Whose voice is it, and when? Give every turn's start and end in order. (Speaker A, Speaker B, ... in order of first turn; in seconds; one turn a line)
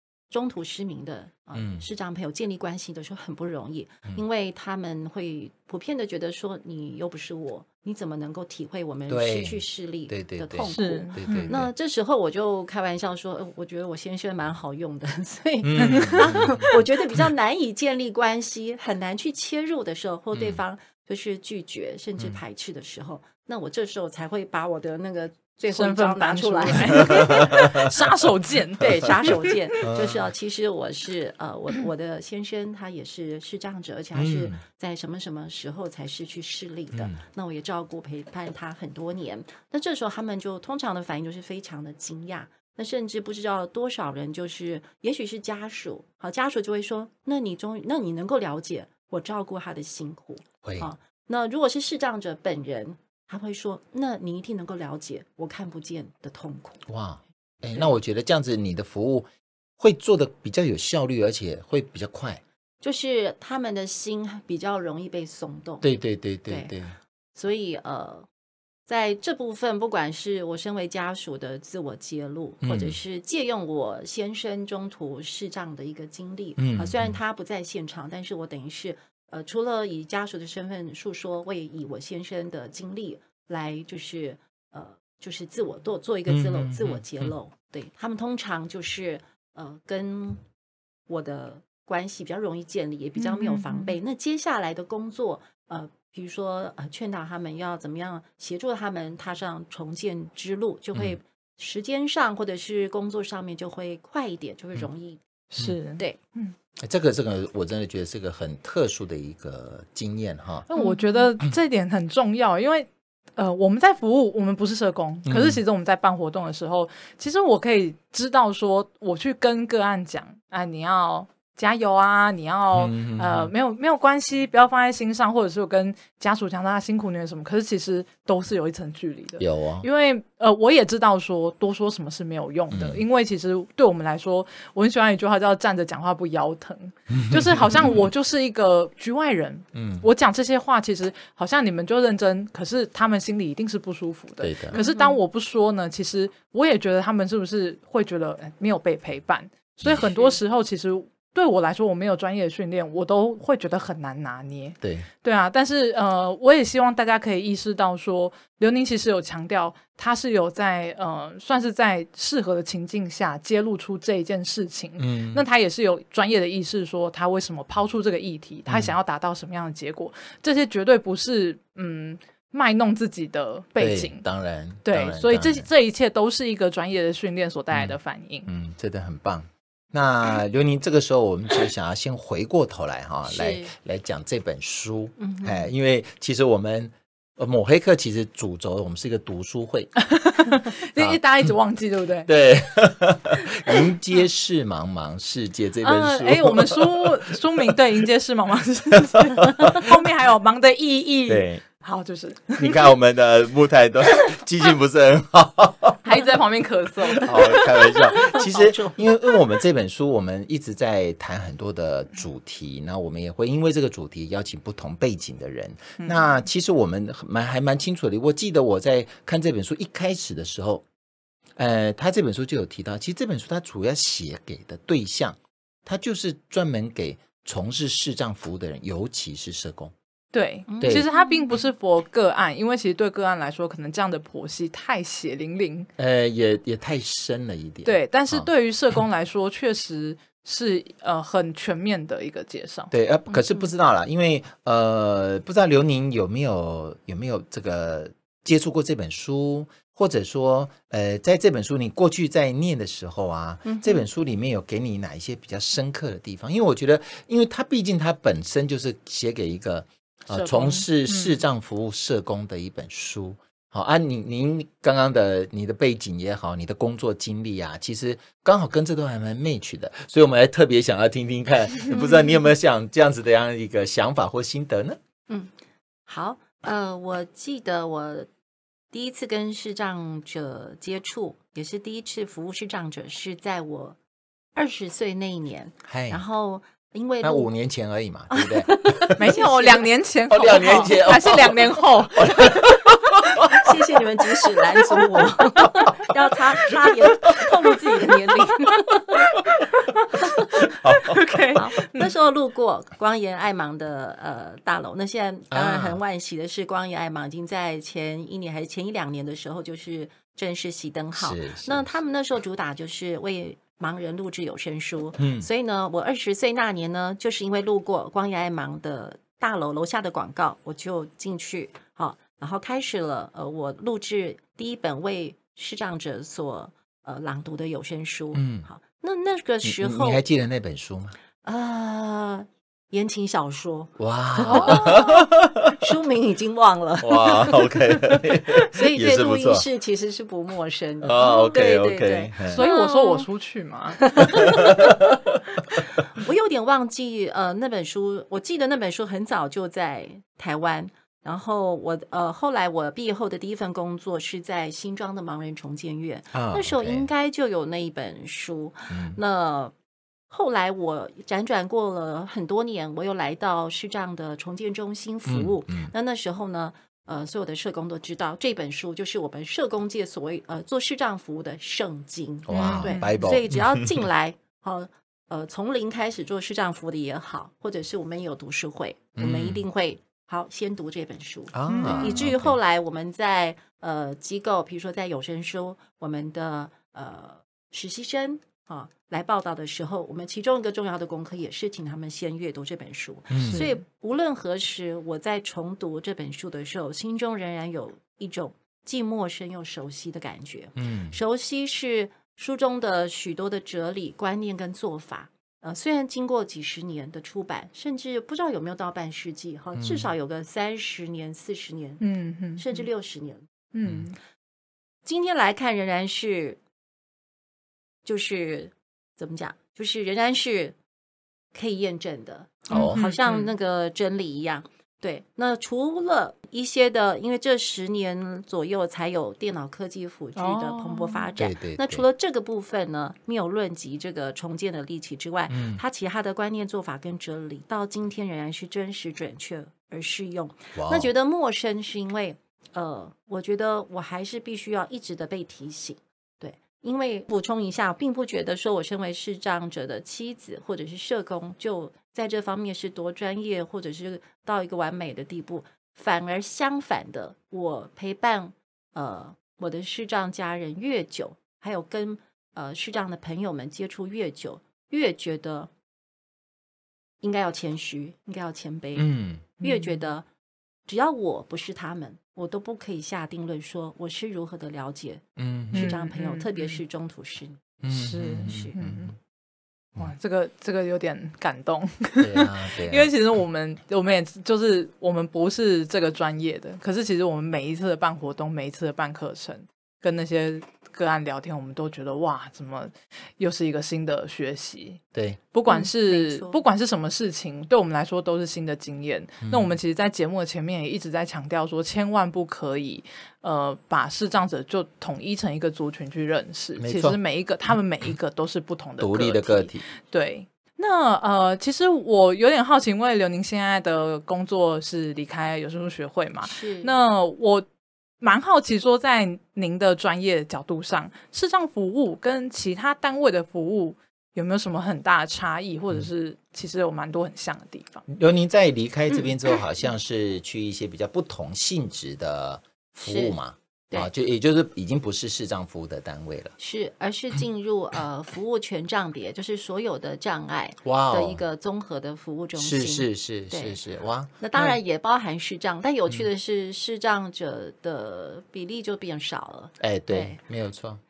Speaker A: 0.3-27.6
Speaker B: 1.5-1.9
Speaker B: 9.1-11.7
Speaker C: 10.7-11.5
Speaker B: 15.6-16.8
Speaker C: 15.8-16.6
Speaker B: 20.3-20.6
Speaker C: 25.7-29.6
Speaker B: 27.0-27.9
Speaker A: 28.8-56.8
Speaker B: 29.8-30.3
Speaker B: 34.1-34.6
Speaker B: 50.6-50.9
Speaker B: 56.9-59.3
Speaker B: 59.8-62.4
Speaker A: 62.8-65.9
Speaker B: 65.8-67.0
Speaker A: 66.5-66.7
Speaker A: 67.3-68.3
Speaker A: 68.9-90.4
Speaker B: 72.6-73.0
Speaker B: 76.6-77.2
Speaker B: 86.3-87.3
Speaker A: 91.1-105.2
Speaker C: 93.2-94.0
Speaker C: 105.5-106.5
Speaker B: 106.8-110.7
Speaker C: 110.7-174.2
Speaker A: 110.7-111.2
Speaker B: 115.2-115.6
Speaker B: 122.7-123.5
Speaker B: 129.4-129.9
Speaker B: 132.7-133.0
Speaker B: 137.1-138.1
Speaker B: 139.7-140.1
Speaker B: 144.4-144.8
Speaker A: 144.7-145.2
Speaker B: 149.8-150.1
Speaker B: 154.8-155.1
Speaker B: 165.0-165.4
Speaker B: 168.7-168.9
Speaker B: 173.8-175.7
Speaker C: 174.8-178.5
Speaker B: 177.7-190.0
Speaker A: 183.2-183.7
Speaker A: 185.2-185.7
Speaker C: 190.0-192.3
Speaker B: 190.9-191.5
Speaker B: 192.3-197.3
Speaker C: 195.8-202.8
Speaker B: 199.1-200.0
Speaker B: 201.3-201.6
Speaker B: 202.6-206.0
Speaker C: 206.0-208.6
Speaker B: 207.2-220.8
Speaker A: 208.3-208.9
Speaker C: 216.0-216.3
Speaker B: 221.6-229.9
Speaker C: 230.3-235.9
Speaker A: 230.7-231.5
Speaker B: 230.8-231.1
Speaker B: 236.0-238.5
Speaker C: 237.8-242.9
Speaker B: 242.9-275.0
Speaker A: 253.6-254.0
Speaker C: 260.3-261.4
Speaker A: 276.1-278.3
Speaker A: 278.9-284.0
Speaker A: 284.5-287.5
Speaker B: 285.8-286.2
Speaker B: 287.2-289.3
Speaker A: 288.3-289.9
Speaker C: 289.1-292.7
Speaker B: 290.3-295.9
Speaker A: 290.5-290.9
Speaker A: 293.3-299.2
Speaker A: 300.1-300.6
Speaker B: 300.6-301.4
Speaker C: 300.7-302.1
Speaker A: 301.5-330.2
Speaker B: 305.5-306.0
Speaker B: 311.1-311.9
Speaker B: 315.2-315.5
Speaker B: 328.3-328.7
Speaker B: 329.6-331.1
Speaker A: 331.4-337.7
Speaker B: 334.0-335.9
Speaker C: 334.5-335.1
Speaker B: 337.0-339.6
Speaker A: 338.6-343.3
Speaker B: 341.0-342.6
Speaker C: 342.4-344.2
Speaker A: 344.0-345.1
Speaker B: 344.3-345.2
Speaker A: 346.1-359.7
Speaker B: 356.3-357.1
Speaker B: 358.9-359.2
Speaker A: 360.3-412.0
Speaker B: 365.3-365.9
Speaker B: 372.4-374.0
Speaker C: 372.5-373.1
Speaker B: 379.2-379.6
Speaker B: 381.5-382.6
Speaker C: 381.7-382.3
Speaker B: 393.3-393.6
Speaker C: 393.4-393.7
Speaker B: 400.8-401.2
Speaker B: 409.7-410.1
Speaker C: 412.0-412.8
Speaker A: 412.6-413.4
Speaker C: 413.7-414.1
Speaker A: 415.0-416.6
Speaker A: 418.0-420.8
Speaker A: 421.5-465.7
Speaker B: 422.7-423.1
Speaker C: 422.7-423.5
Speaker C: 430.4-431.3
Speaker B: 431.4-432.0
Speaker B: 435.5-435.8
Speaker B: 440.7-441.1
Speaker A: 467.2-469.1
Speaker B: 468.9-469.5
Speaker A: 469.6-470.3
Speaker C: 469.6-470.0
Speaker A: 470.9-477.6
Speaker B: 475.4-476.0
Speaker C: 475.7-476.6
Speaker B: 477.8-479.1
Speaker C: 477.9-479.1
Speaker A: 478.4-478.7
Speaker C: 480.0-495.0
Speaker B: 482.2-483.1
Speaker B: 495.1-495.4
Speaker C: 495.5-517.6
Speaker A: 495.7-496.6
Speaker B: 499.4-499.8
Speaker B: 506.8-507.2
Speaker B: 509.0-509.8
Speaker A: 516.4-516.9
Speaker C: 518.2-528.0
Speaker B: 528.1-536.5
Speaker A: 533.0-533.4
Speaker A: 536.6-543.8
Speaker B: 540.8-541.4
Speaker B: 542.6-544.8
Speaker A: 544.4-550.4
Speaker B: 549.8-551.0